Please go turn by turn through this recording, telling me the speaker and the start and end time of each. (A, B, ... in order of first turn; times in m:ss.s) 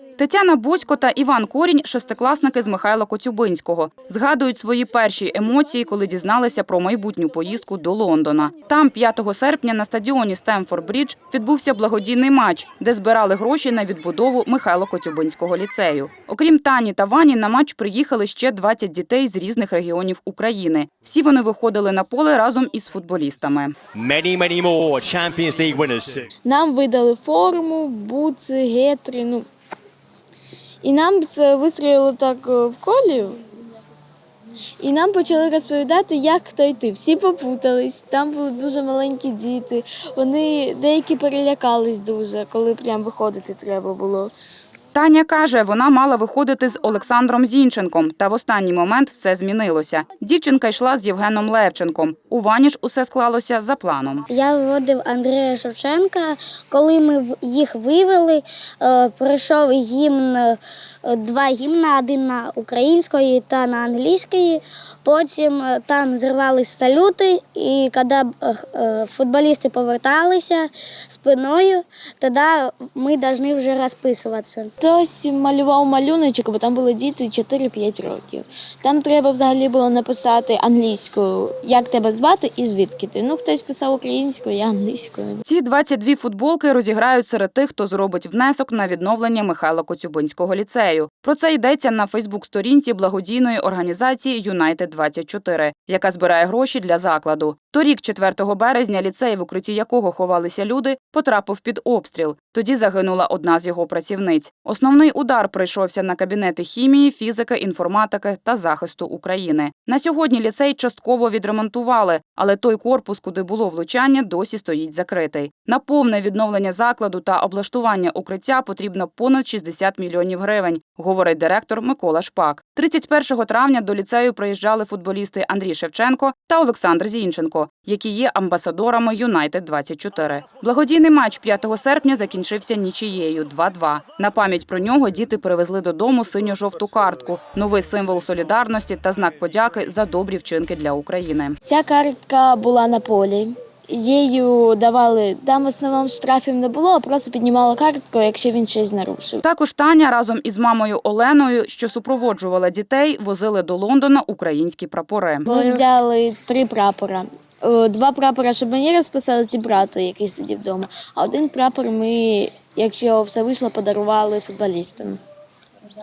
0:00.2-0:23.8 A
0:23.9-0:26.3 B
0:26.4-0:29.5 C
0:30.8-0:33.4 C
0:34.8-0:44.3 C
0:44.9-0:54.3 A
0:54.3-1:14.7 D
1:14.8-1:25.4 C
1:25.5-2:21.6 A
2:21.6-2:29.4 C
2:29.4-2:35.5 A
2:35.4-2:45.2 C
2:35.5-2:35.8 D